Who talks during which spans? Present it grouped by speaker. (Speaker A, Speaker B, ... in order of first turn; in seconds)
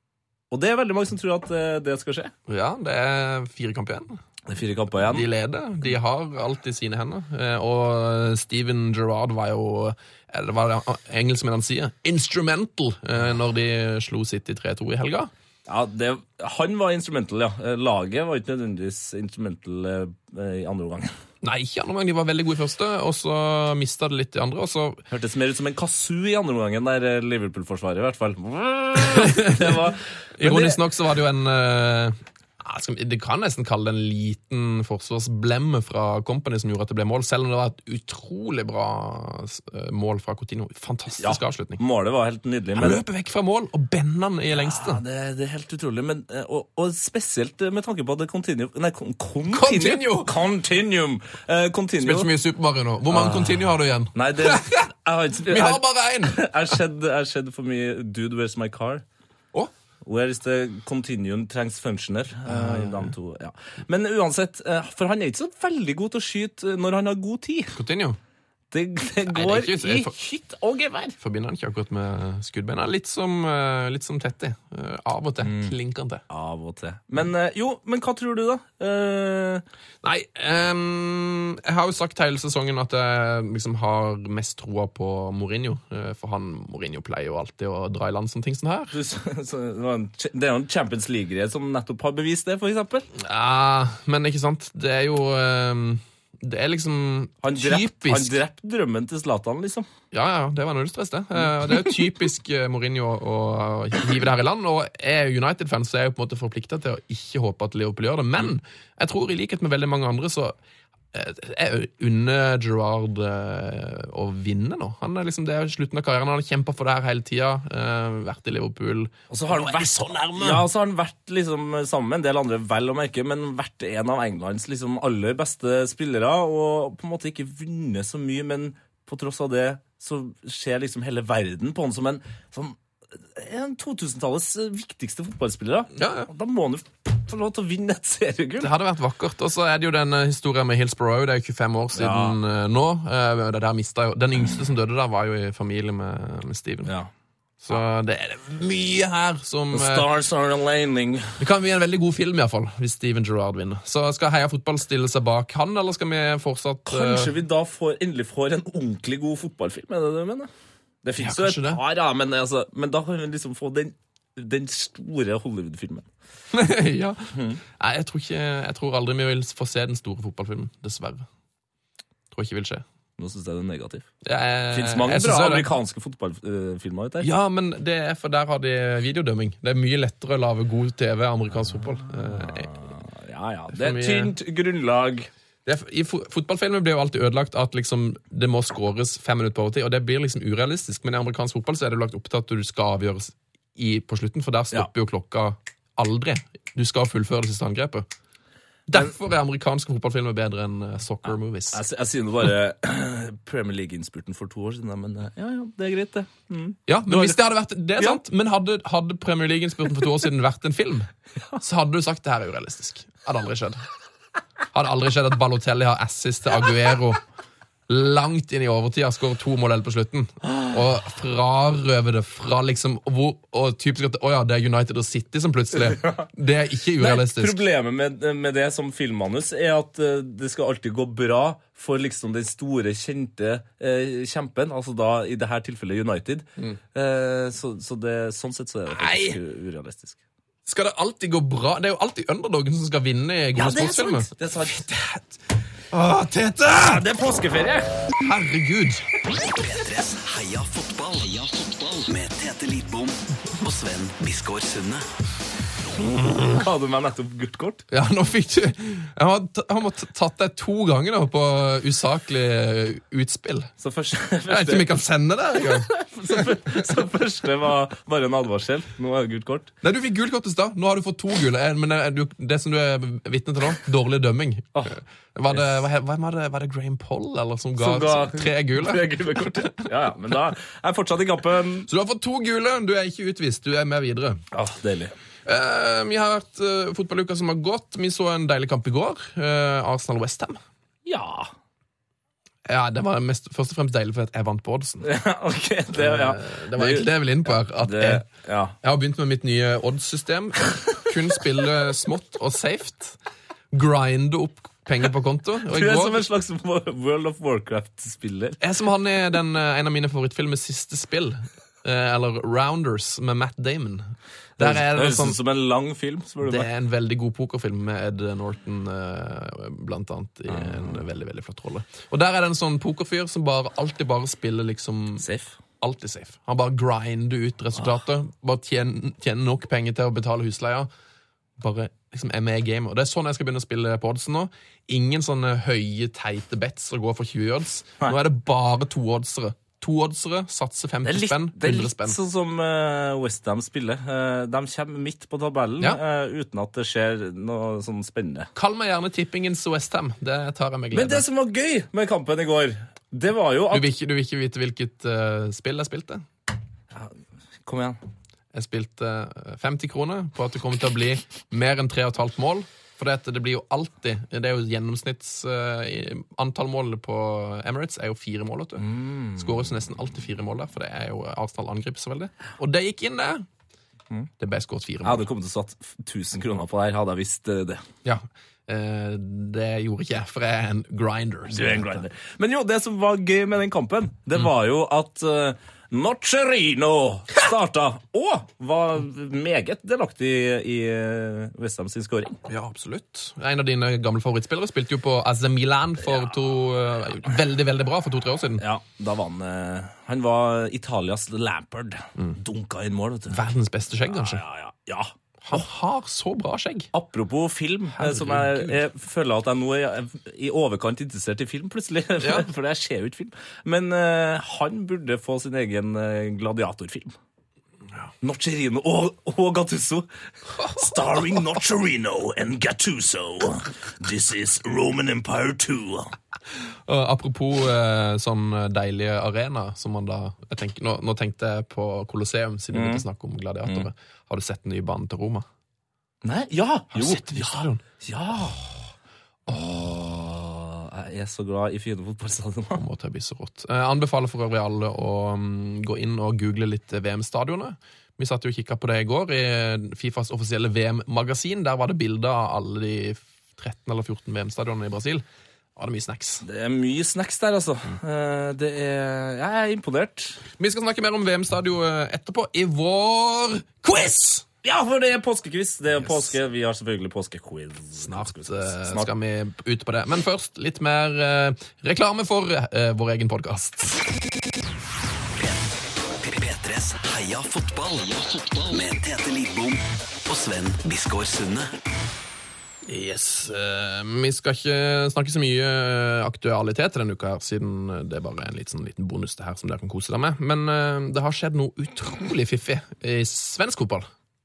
Speaker A: 0.5-2.3, 4.5-5.3, 15.7-21.1, 25.1-30.8, 41.2-43.0, 44.5-52.3, 53.1-59.0, 60.0-67.8, 68.7-71.2, 75.4-75.7, 76.3-79.6, 88.9-93.1, 97.4-99.9, 119.3-138.7, 141.9-142.3, 146.8-147.1, 149.7-151.4, 156.9-160.5, 161.0-166.1, 167.3-167.6, 173.2-174.1, 174.7-177.3, 182.3-185.3, 201.7-207.4, 225.8-226.3, 227.0-240.2, 243.6-245.2, 246.8-248.1, 256.4-257.8, 263.8-264.9, 265.6-269.7, 277.8-281.9, 284.5-285.1, 291.0-291.5, 295.0-297.1, 297.7-298.7, 305.7-308.6, 314.6-316.7, 320.5-321.0, 325.2-325.6, 341.0-348.5, 350.9-353.9, 356.9-358.0, 368.8-369.5, 375.0-377.8, 381.5-392.4, 398.6-403.4, 404.1-405.6, 406.9-417.1, 418.2-420.0, 420.6-426.1, 432.7-433.0, 436.2-438.8, 439.5-442.8, 456.4-460.4, 464.6-469.1
Speaker B: 2.5-4.2, 5.0-15.3, 21.4-25.0, 29.0-29.7, 30.4-41.8, 42.8-45.0, 49.5-50.3, 52.0-54.9, 55.5-56.7, 62.5-63.1, 67.8-68.2, 69.3-70.1, 71.2-76.2, 80.0-88.9, 93.1-98.3, 100.1-110.5, 111.1-120.7, 135.9-136.3, 138.6-146.9, 147.6-150.1, 151.4-157.3, 161.2-161.8, 166.5-171.2, 172.3-172.8, 174.2-175.7, 177.2-182.7, 183.7-184.3, 185.6-198.1, 198.9-201.8, 206.9-211.1, 211.6-213.8, 214.7-217.2, 217.9-227.6, 238.9-239.4, 240.7-244.3, 245.9-247.0, 248.2-249.0, 257.9-263.7, 264.5-266.8, 269.8-279.1, 281.9-284.4, 285.4-290.6, 292.6-295.1, 295.9-298.2, 298.8-303.2, 303.7-306.2, 308.6-315.4, 316.4-325.2, 325.8-330.9, 331.6-342.2, 348.5-351.2, 353.7-356.2, 358.5-373.4, 374.4-375.2, 378.0-382.0, 392.4-398.6, 403.3-404.4, 405.4-406.9, 408.0-408.8, 412.2-412.4, 426.9-435.4, 436.9-437.8, 442.7-455.2, 455.8-456.4, 460.6-464.4, 468.0-474.0, 482.8-494.1
Speaker C: 249.4-255.1, 475.4-481.7